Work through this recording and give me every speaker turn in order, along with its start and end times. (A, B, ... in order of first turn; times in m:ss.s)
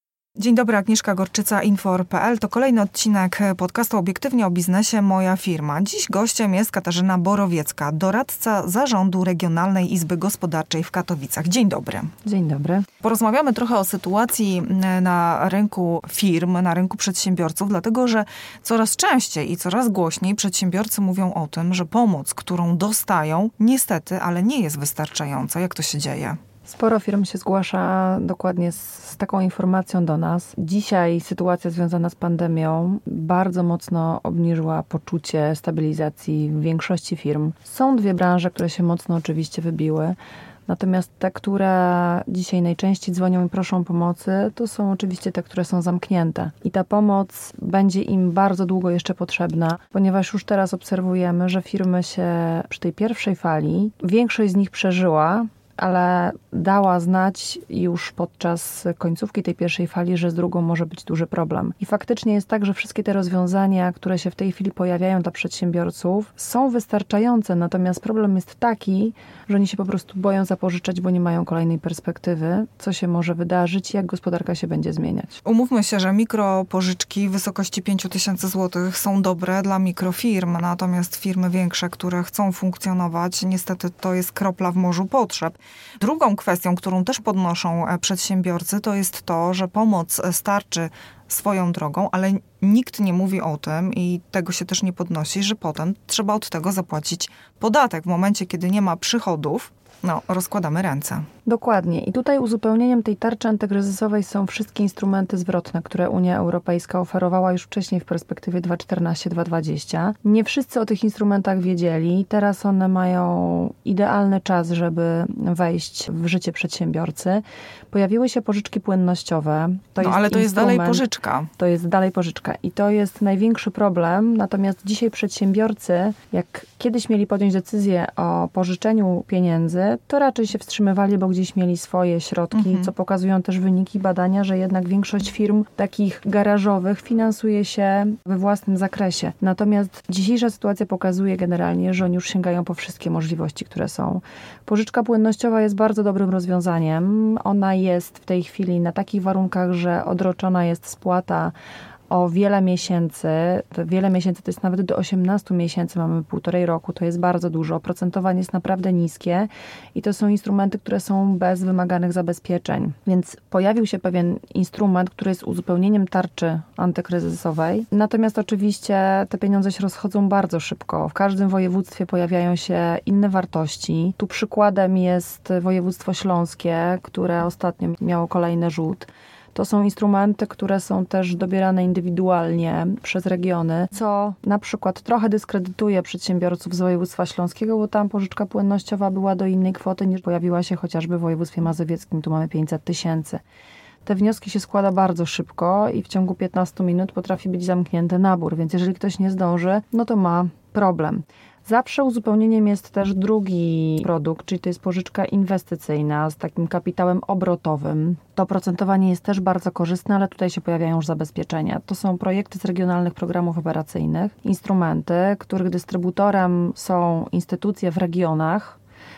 0:00.4-0:12.1 A
0:12.2-0:12.9 B
0:13.0-0:26.4 A
0:26.6-1:15.4 B
1:15.4-1:41.2 A
1:41.4-2:01.0 B
2:00.0-2:01.5 A
2:01.6-2:31.5 B
2:12.5-2:12.9 A
2:32.1-3:13.4 B
3:14.0-3:38.8 B